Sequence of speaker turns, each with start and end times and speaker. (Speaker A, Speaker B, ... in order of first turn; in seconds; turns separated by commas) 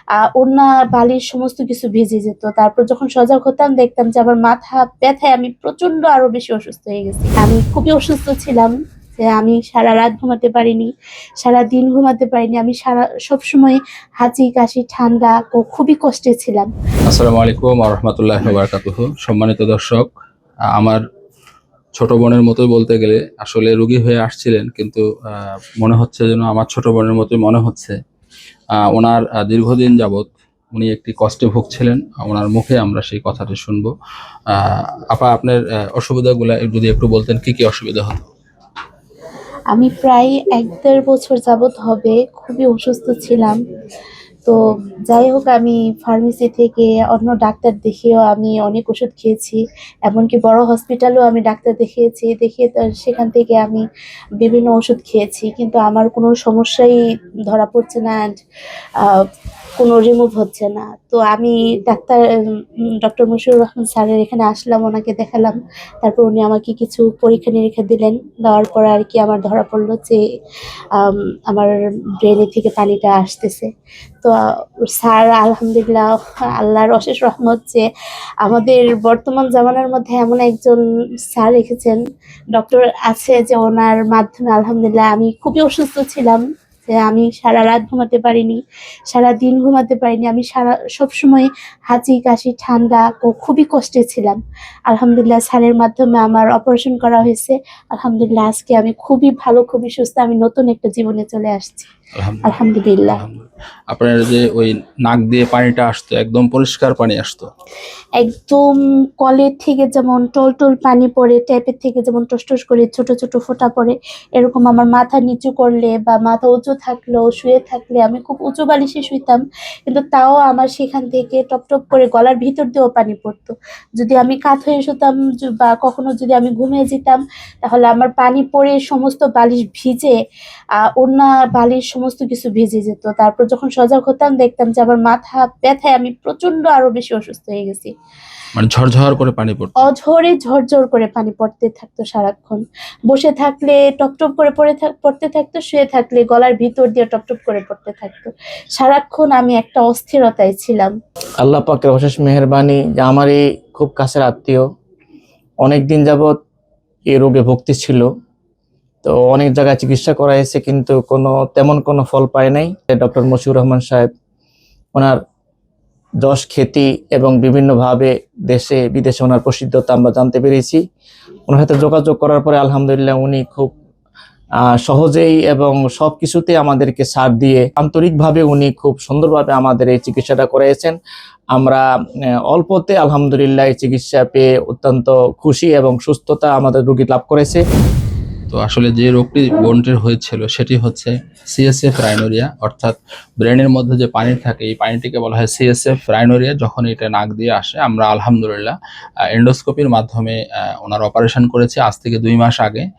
Speaker A: 0.2-10.9, Speaker A: 11.4-16.7, Speaker B: 17.1-20.1, Speaker B: 20.8-21.0, Speaker B: 21.9-28.0, Speaker B: 28.8-33.9, Speaker B: 34.5-38.3, Speaker A: 39.7-43.6, Speaker A: 45.1-53.8, Speaker A: 54.4-57.0, Speaker A: 57.5-58.4, Speaker A: 59.8-62.2, Speaker A: 63.0-70.2, Speaker A: 71.0-73.7, Speaker A: 74.9-77.8, Speaker A: 78.4-80.8, Speaker A: 81.3-82.0, Speaker A: 82.5-101.9, Speaker B: 102.2-107.5, Speaker A: 102.5-103.2, Speaker A: 108.2-130.2, Speaker A: 130.8-137.9, Speaker B: 138.6-139.9, Speaker A: 139.8-150.9, Speaker C: 151.4-154.7, Speaker C: 155.6-156.3, Speaker C: 157.1-158.1, Speaker C: 159.0-164.1, Speaker C: 164.9-165.2, Speaker C: 166.2-170.8, Speaker C: 171.5-173.7, Speaker C: 174.6-181.0, Speaker C: 181.5-181.8, Speaker C: 182.5-187.6, Speaker B: 188.5-198.8, Speaker B: 199.3-202.9